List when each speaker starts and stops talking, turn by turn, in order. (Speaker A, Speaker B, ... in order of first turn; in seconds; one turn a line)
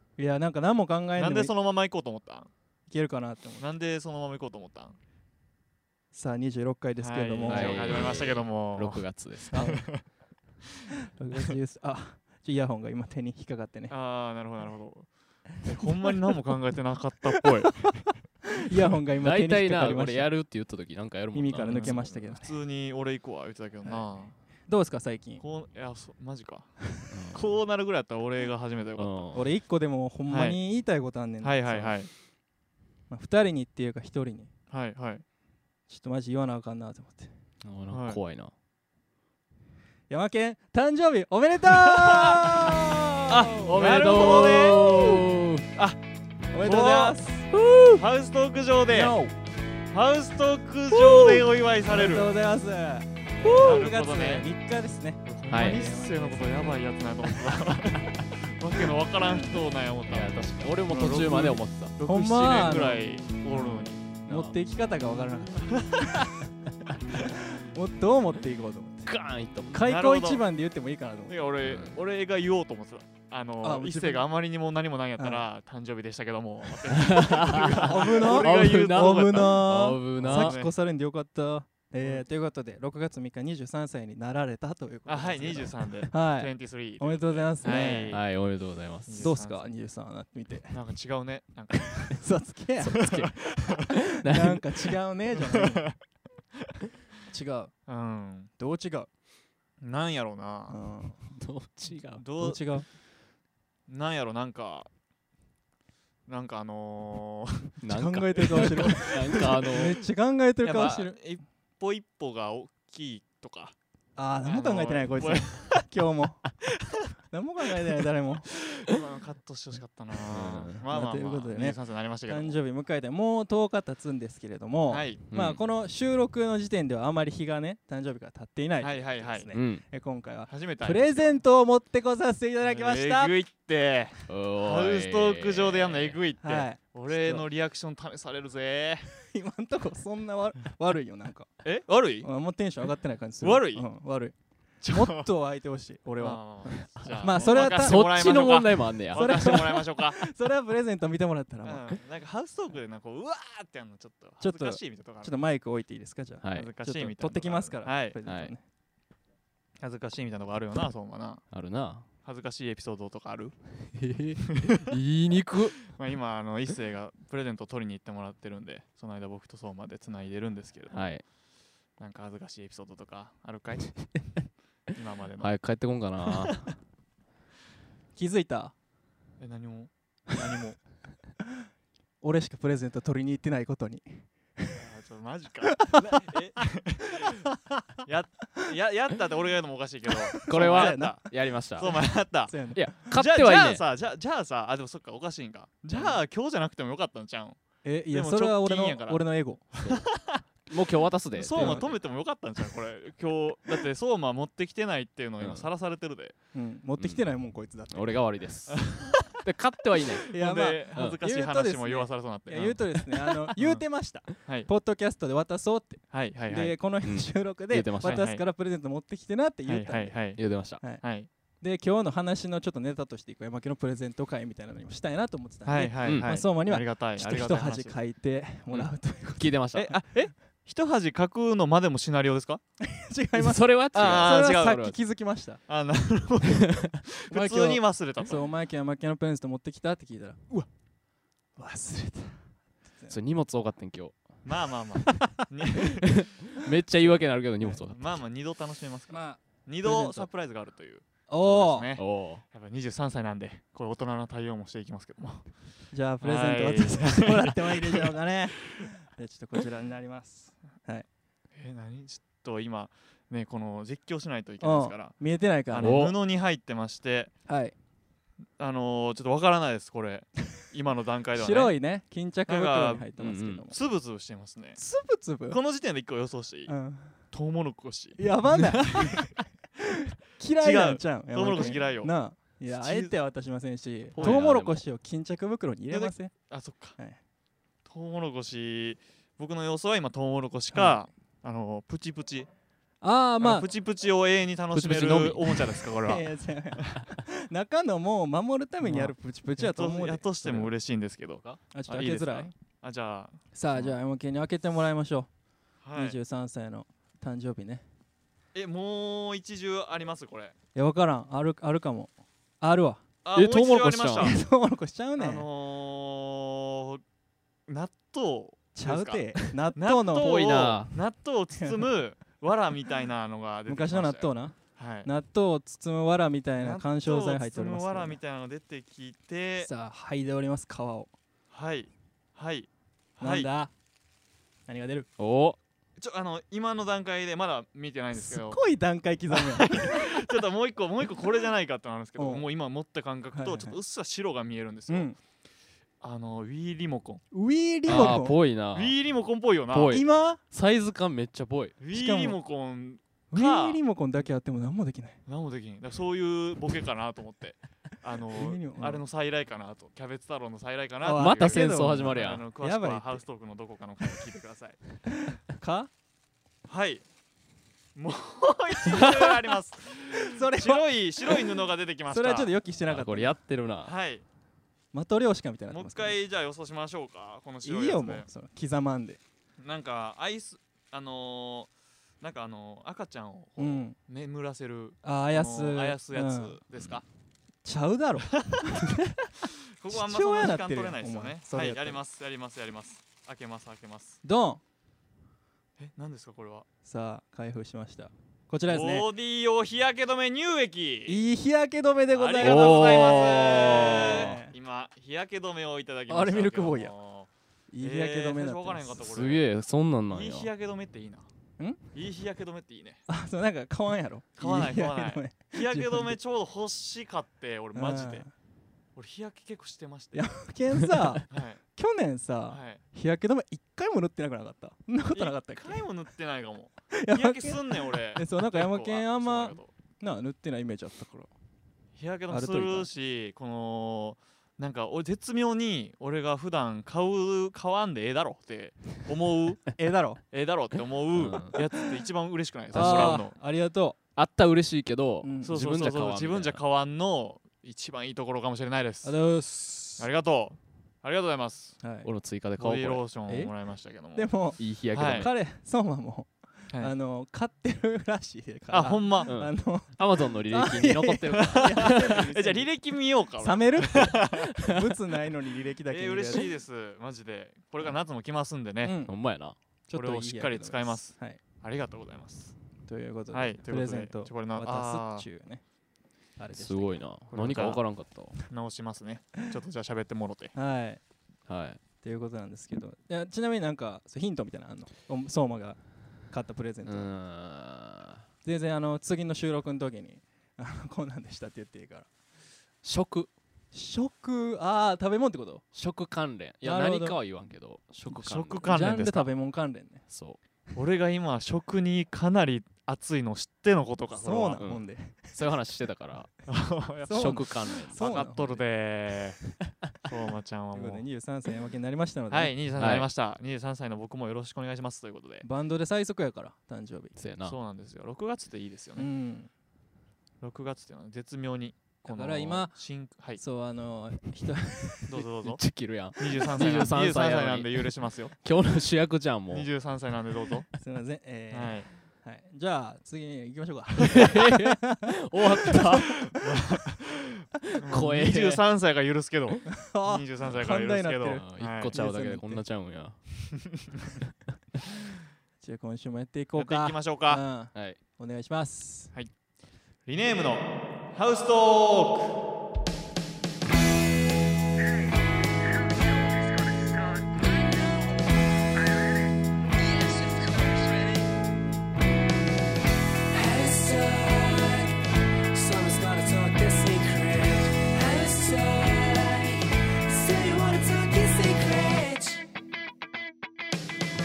Speaker A: 0.2-1.5
Speaker B: 1.1-2.5
Speaker A: 2.9-3.6
Speaker B: 3.6-5.0
Speaker A: 6.1-8.0
Speaker B: 7.0-10.0
Speaker C: 7.5-9.7
Speaker A: 9.5-9.9
Speaker A: 10.9-13.9
Speaker B: 13.9-18.1
Speaker A: 15.8-16.1
Speaker A: 18.5-20.3
Speaker C: 19.2-22.1
Speaker A: 21.3-22.6
Speaker B: 21.5-24.3
Speaker A: 24.7-25.4
Speaker B: 25.4-26.7
Speaker C: 27.1-27.5
Speaker B: 27.3-29.4
Speaker C: 29.0-29.4
Speaker A: 29.3-32.0
Speaker B: 30.3-30.6
Speaker B: 31.4-32.1
Speaker A: 33.1-34.5
Speaker B: 34.7-35.2
Speaker A: 35.9-37.3
Speaker C: 37.6-38.5
Speaker B: 37.9-38.2
Speaker A: 40.1-44.7
Speaker B: 43.3-45.2
Speaker C: 43.5-45.6
Speaker A: 46.5-47.5
Speaker B: 46.6-47.2
Speaker C: 47.5-48.0
Speaker B: 47.9-49.1
Speaker C: 48.9-49.3
Speaker B: 49.9-52.3
Speaker C: 50.9-51.3
Speaker A: 51.9-56.8
Speaker B: 53.4-54.5
Speaker C: 53.4-53.9
Speaker B: 55.2-64.0
Speaker C: 55.5-55.8
Speaker C: 60.1-61.9
Speaker A: 62.0-66.2
Speaker C: 64.3-64.5
Speaker B: 65.7-66.1
Speaker A: 67.1-69.1
Speaker C: 69.0-69.9
Speaker A: 69.7-71.4
Speaker B: 69.8-70.4
Speaker B: 71.3-80.7
Speaker C: 71.6-72.0
Speaker A: 73.6-74.3
Speaker A: 75.2-75.4
Speaker C: 76.9-80.6
Speaker A: 77.5-88.2
Speaker B: 85.0-88.3
Speaker C: 87.6-89.3
Speaker B: 89.0-89.7
Speaker A: 89.2-90.8
Speaker B: 90.7-92.2
Speaker A: 92.0-93.2
Speaker C: 92.8-94.9
Speaker B: 93.1-93.8
Speaker A: 93.9-95.8
Speaker B: 95.4-96.0
Speaker A: 97.3-97.7
Speaker B: 97.9-98.5
Speaker A: 98.6-99.1
Speaker B: 99.8-100.8
Speaker A: 100.7-101.3
Speaker C: 101.3-102.2
Speaker B: 102.1-102.6
Speaker A: 102.3-102.8
Speaker B: 103.9-104.9
Speaker B: 106.3-107.7
Speaker C: 107.8-110.0
Speaker A: 107.8-111.2
Speaker B: 108.6-108.9
Speaker B: 110.6-113.7
Speaker A: 114.2-116.5
Speaker B: 114.4-115.9
Speaker B: 116.7-117.0
Speaker A: 117.3-118.5
Speaker B: 118.7-122.6
Speaker C: 120.3-120.8
Speaker A: 120.9-133.3
Speaker B: 124.9-125.2
Speaker C: 125.3-125.6
Speaker B: 128.8-129.5
Speaker C: 129.5-129.8
Speaker B: 130.5-131.4
Speaker B: 132.6-139.1
Speaker C: 134.3-136.2
Speaker A: 136.4-137.4
Speaker A: 139.1-141.5
Speaker B: 141.6-142.3
Speaker A: 142.2-144.3
Speaker B: 143.4-143.8
Speaker B: 144.8-145.3
Speaker A: 144.9-148.3
Speaker B: 146.2-150.2
Speaker C: 147.3-149.7
Speaker A: 149.1-151.9
Speaker B: 151.6-155.4
Speaker A: 154.4-158.6
Speaker C: 156.4-156.7
Speaker B: 156.5-158.2
Speaker C: 158.2-158.5
Speaker B: 159.8-161.4
Speaker C: 161.5-162.1
Speaker B: 162.2-163.5
Speaker C: 163.9-165.8
Speaker B: 164.5-165.0
Speaker B: 165.9-171.1
Speaker C: 170.9-171.2
Speaker B: 172.0-174.2
Speaker B: 174.9-175.5
Speaker C: 175.4-176.7
Speaker B: 176.3-176.7
Speaker A: 178.2-178.7
Speaker B: 179.4-180.8
Speaker A: 182.2-184.8
Speaker B: 184.8-187.4
Speaker A: 185.7-186.2
Speaker B: 188.0-197.6
Speaker A: 190.3-191.2
Speaker C: 190.5-192.0
Speaker A: 192.5-192.9
Speaker C: 192.7-193.8
Speaker A: 197.8-200.0
Speaker B: 198.1-199.2
Speaker B: 199.8-200.4
Speaker C: 200.7-202.0
Speaker B: 201.3-206.3
Speaker A: 201.6-201.8
Speaker C: 205.4-205.7
Speaker A: 206.5-208.2
Speaker C: 207.9-210.3
Speaker B: 208.7-209.1
Speaker A: 210.2-220.1
Speaker B: 210.3-213.0
Speaker C: 210.9-211.2
Speaker B: 213.6-214.7
Speaker B: 216.1-216.8
Speaker C: 217.0-218.2
Speaker B: 218.0-218.5
Speaker B: 219.7-220.4
Speaker C: 220.4-220.8
Speaker B: 221.0-221.3
Speaker A: 221.6-230.3
Speaker B: 225.7-228.0
Speaker C: 226.0-226.3
Speaker C: 228.7-229.9
Speaker B: 229.7-232.6
Speaker A: 232.8-235.6
Speaker C: 233.3-234.9
Speaker B: 233.9-234.9
Speaker B: 235.7-238.4
Speaker A: 237.3-240.7
Speaker A: 241.6-243.2
Speaker C: 243.1-244.2
Speaker B: 244.4-246.3
Speaker A: 245.1-245.4
Speaker C: 245.8-248.1
Speaker B: 247.8-255.5
Speaker A: 249.1-250.3
Speaker A: 251.3-251.9
Speaker C: 252.0-252.4
Speaker A: 255.9-261.1
Speaker B: 256.2-258.1
Speaker B: 261.5-265.1
Speaker A: 264.6-266.1
Speaker B: 265.7-267.3
Speaker C: 265.8-266.1
Speaker A: 267.5-267.7
Speaker B: 268.6-271.7
Speaker A: 271.3-273.7
Speaker B: 272.5-273.1
Speaker C: 273.2-273.7
Speaker B: 273.7-274.8
Speaker A: 274.8-275.6
Speaker B: 275.5-276.7
Speaker A: 276.7-277.1
Speaker B: 277.3-279.3
Speaker A: 278.2-286.3
Speaker B: 280.6-282.1
Speaker B: 282.7-283.1
Speaker B: 284.1-284.5
Speaker C: 284.2-284.8
Speaker B: 285.9-286.9
Speaker B: 287.9-292.5
Speaker A: 290.7-291.0
Speaker A: 293.0-293.6
Speaker B: 293.4-296.2
Speaker C: 294.7-295.8
Speaker A: 296.0-300.7
Speaker B: 298.8-303.9
Speaker A: 301.7-302.5
Speaker A: 303.5-305.3
Speaker B: 305.8-306.2
Speaker A: 305.9-307.8
Speaker B: 308.5-310.5
Speaker A: 310.7-313.0
Speaker B: 313.2-314.4
Speaker C: 313.3-314.3
Speaker A: 314.2-315.4
Speaker B: 315.2-317.0
Speaker B: 317.7-325.1
Speaker A: 318.7-320.5
Speaker C: 320.1-320.9
Speaker A: 323.7-328.2
Speaker B: 326.6-329.7
Speaker A: 329.6-331.1
Speaker B: 331.5-333.5
Speaker A: 333.2-333.7
Speaker A: 334.7-335.1
Speaker C: 335.2-335.6
Speaker B: 336.0-338.6
Speaker A: 338.1-340.4
Speaker B: 339.3-345.1
Speaker A: 342.2-342.4
Speaker A: 343.3-343.8
Speaker A: 344.9-345.2
Speaker B: 346.0-347.2
Speaker A: 347.3-348.4
Speaker C: 347.9-348.9
Speaker B: 347.9-348.2
Speaker B: 348.7-350.0
Speaker C: 349.7-351.7
Speaker A: 349.9-350.4
Speaker B: 351.8-353.8
Speaker A: 351.9-352.4
Speaker A: 353.3-355.2
Speaker B: 355.2-364.8
Speaker A: 358.3-359.0
Speaker A: 361.0-363.2
Speaker C: 361.1-362.4
Speaker A: 365.1-365.9
Speaker B: 366.7-367.0
Speaker B: 367.9-372.5
Speaker A: 370.1-371.4
Speaker A: 372.1-373.4
Speaker C: 372.9-373.9
Speaker B: 373.8-374.2
Speaker A: 374.9-376.2
Speaker B: 375.7-378.3
Speaker A: 377.6-379.2
Speaker B: 379.6-381.7
Speaker B: 382.2-387.0
Speaker A: 383.6-383.9
Speaker A: 385.0-386.6
Speaker C: 386.8-387.0
Speaker A: 387.6-389.1
Speaker B: 388.3-388.7
Speaker B: 389.8-394.2
Speaker A: 389.9-392.0
Speaker A: 394.2-394.6
Speaker B: 395.8-396.6
Speaker A: 396.8-399.1
Speaker B: 398.7-401.2
Speaker A: 401.1-404.5
Speaker B: 402.1-407.3
Speaker C: 402.4-404.4
Speaker A: 406.1-406.9
Speaker A: 407.7-408.9
Speaker B: 407.8-409.4
Speaker C: 409.0-410.5
Speaker B: 410.1-411.3
Speaker B: 411.9-413.0
Speaker A: 413.1-416.1
Speaker B: 414.4-418.2
Speaker A: 417.7-418.3
Speaker B: 418.9-420.3
Speaker A: 420.1-425.8
Speaker B: 421.3-421.6
Speaker B: 422.5-422.8
Speaker B: 425.1-429.7
Speaker A: 426.9-431.3
Speaker B: 431.9-443.3
Speaker A: 432.3-432.9
Speaker A: 439.8-440.2
Speaker C: 441.1-441.5
Speaker A: 441.5-441.9
Speaker C: 442.7-443.2
Speaker A: 442.7-444.0
Speaker C: 444.1-446.6
Speaker A: 445.2-445.9
Speaker B: 445.4-449.3
Speaker A: 449.0-450.1
Speaker B: 450.0-451.8
Speaker A: 451.8-452.1
Speaker C: 452.0-453.0
Speaker B: 452.6-454.3
Speaker A: 453.3-453.5
Speaker A: 454.1-454.6
Speaker C: 454.6-455.3
Speaker B: 454.9-455.3
Speaker A: 455.1-462.7
Speaker B: 458.7-459.3
Speaker C: 459.2-462.2
Speaker B: 461.4-464.5
Speaker A: 463.4-466.5
Speaker B: 465.9-469.0
Speaker A: 468.8-469.1
Speaker C: 469.1-469.6
Speaker A: 469.9-471.4
Speaker B: 469.9-472.5
Speaker A: 472.9-475.6
Speaker B: 473.3-475.2
Speaker A: 476.4-477.0
Speaker C: 476.5-478.3
Speaker B: 477.3-477.8
Speaker B: 478.4-480.5
Speaker A: 480.5-481.0
Speaker C: 481.5-481.8
Speaker A: 482.0-485.8
Speaker A: 486.3-487.1
Speaker C: 486.9-488.2
Speaker A: 488.4-492.1
Speaker C: 492.8-493.3
Speaker A: 493.7-495.6
Speaker C: 495.7-498.7
Speaker A: 496.6-497.2
Speaker B: 498.1-499.3
Speaker A: 498.7-500.0
Speaker C: 500.1-500.4
Speaker B: 500.7-504.7
Speaker A: 504.1-505.4
Speaker C: 504.6-506.3
Speaker B: 506.5-509.5
Speaker A: 507.1-508.4
Speaker C: 507.1-508.6
Speaker B: 510.0-511.0
Speaker A: 510.7-512.5
Speaker B: 512.3-515.4
Speaker C: 512.8-513.1
Speaker A: 515.4-517.1
Speaker C: 517.1-517.6
Speaker B: 517.4-519.1
Speaker A: 519.0-519.5
Speaker B: 520.4-523.4
Speaker A: 522.1-522.7
Speaker A: 523.4-525.2
Speaker B: 525.1-525.6
Speaker C: 525.4-529.7
Speaker B: 526.2-528.3
Speaker B: 529.5-530.7
Speaker A: 530.8-536.0
Speaker B: 531.5-531.9
Speaker C: 534.1-536.3
Speaker B: 536.2-542.0
Speaker C: 537.8-538.6
Speaker A: 539.7-542.6
Speaker C: 541.4-543.2
Speaker A: 545.6-549.1
Speaker B: 546.6-547.4
Speaker B: 550.0-552.5
Speaker A: 556.6-557.2
Speaker A: 560.0-561.1
Speaker A: 563.3-564.9
Speaker A: 565.5-572.4